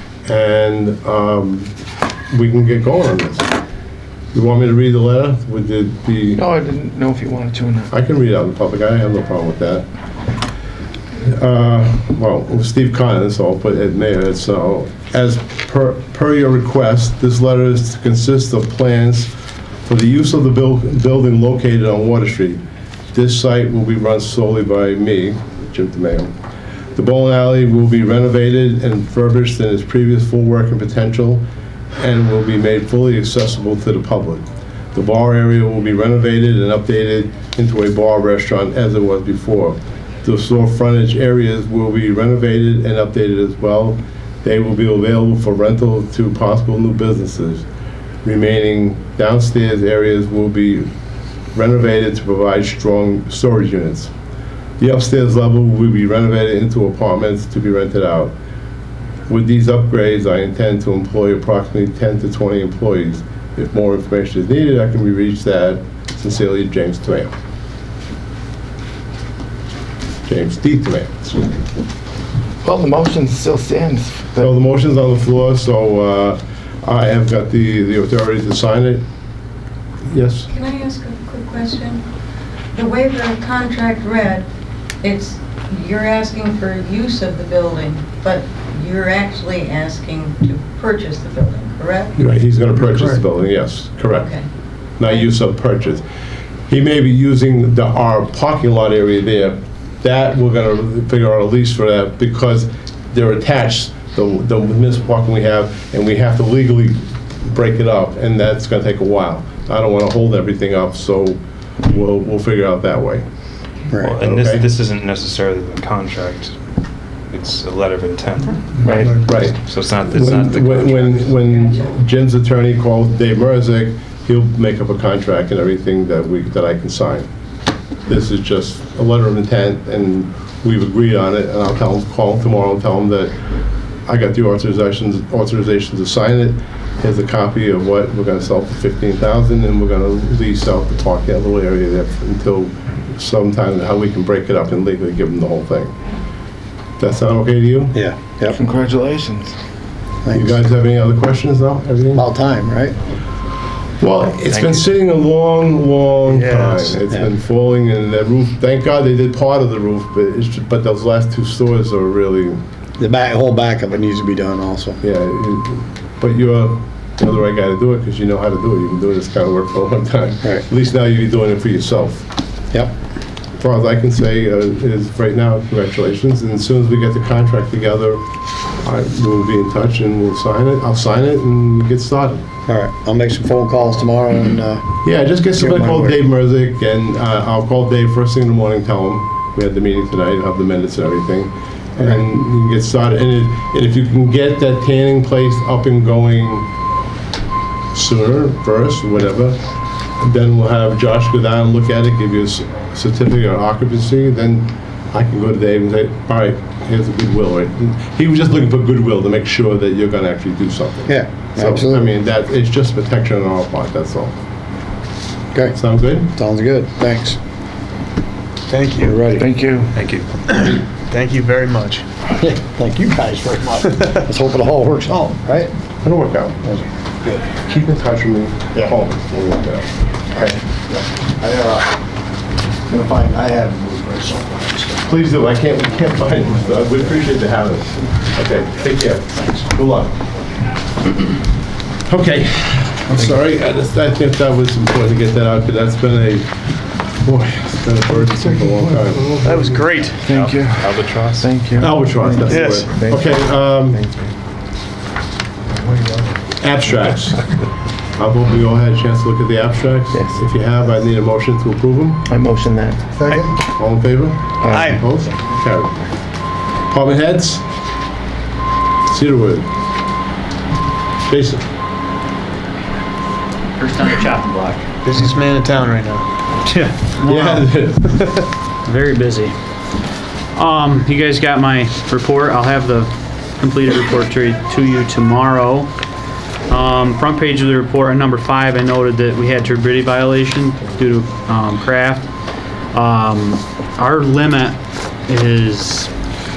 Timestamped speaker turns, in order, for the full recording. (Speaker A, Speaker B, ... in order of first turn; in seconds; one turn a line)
Speaker A: 0.3-1.7
Speaker A: 2.3-3.5
Speaker A: 4.3-6.4
Speaker B: 6.3-7.9
Speaker A: 7.9-9.9
Speaker A: 11.2-19.3
Speaker A: 19.9-22.6
Speaker A: 23.1-26.3
Speaker A: 26.9-31.4
Speaker A: 32.0-47.6
Speaker A: 48.2-50.9
Speaker A: 51.5-54.1
Speaker A: 54.8-58.3
Speaker A: 59.3-67.3
Speaker A: 70.3-71.5
Speaker B: 72.6-74.5
Speaker A: 74.4-79.0
Speaker A: 80.1-80.5
Speaker C: 80.5-82.0
Speaker C: 82.7-84.5
Speaker C: 85.0-92.2
Speaker A: 92.2-94.3
Speaker C: 94.1-94.5
Speaker A: 95.0-96.0
Speaker A: 96.7-113.2
Speaker D: 113.9-114.2
Speaker E: 114.0-116.6
Speaker A: 114.1-114.7
Speaker E: 117.3-118.9
Speaker A: 119.2-127.3
Speaker E: 119.6-121.3
Speaker A: 128.1-133.3
Speaker A: 134.1-145.9
Speaker A: 147.0-148.0
Speaker D: 147.9-148.6
Speaker B: 148.6-149.6
Speaker D: 150.2-150.6
Speaker A: 150.3-152.3
Speaker D: 152.1-153.0
Speaker A: 154.0-162.6
Speaker F: 156.4-157.0
Speaker D: 163.0-165.0
Speaker A: 165.0-172.3
Speaker A: 173.6-178.2
Speaker A: 178.8-182.4
Speaker D: 182.7-184.9
Speaker A: 185.0-196.7
Speaker D: 185.6-186.2
Speaker A: 197.9-199.6
Speaker A: 200.2-214.4
Speaker D: 211.1-212.1
Speaker D: 215.5-217.4
Speaker A: 215.7-216.3
Speaker F: 218.7-219.3
Speaker D: 219.0-219.5
Speaker B: 219.4-219.9
Speaker E: 219.9-220.4
Speaker F: 220.5-222.1
Speaker D: 222.4-225.7
Speaker A: 226.0-226.6
Speaker A: 227.3-229.9
Speaker D: 230.3-232.0
Speaker D: 232.9-235.0
Speaker A: 235.1-240.2
Speaker A: 242.1-246.5
Speaker A: 247.2-249.3
Speaker B: 248.7-249.6
Speaker F: 249.4-250.2
Speaker E: 250.0-251.5
Speaker B: 250.2-253.3
Speaker A: 251.8-254.0
Speaker F: 252.5-252.9
Speaker F: 255.8-256.3
Speaker A: 256.6-257.5
Speaker A: 258.2-262.2
Speaker B: 262.2-263.1
Speaker F: 263.2-263.6
Speaker A: 263.6-266.1
Speaker B: 264.6-265.0
Speaker F: 264.8-265.1
Speaker A: 266.9-267.6
Speaker A: 269.1-269.7
Speaker A: 271.2-271.6
Speaker G: 273.8-274.9
Speaker F: 275.0-276.3
Speaker G: 276.7-277.7
Speaker A: 277.2-278.5
Speaker G: 278.9-279.6
Speaker G: 280.6-285.9
Speaker G: 286.7-292.3
Speaker G: 292.9-296.1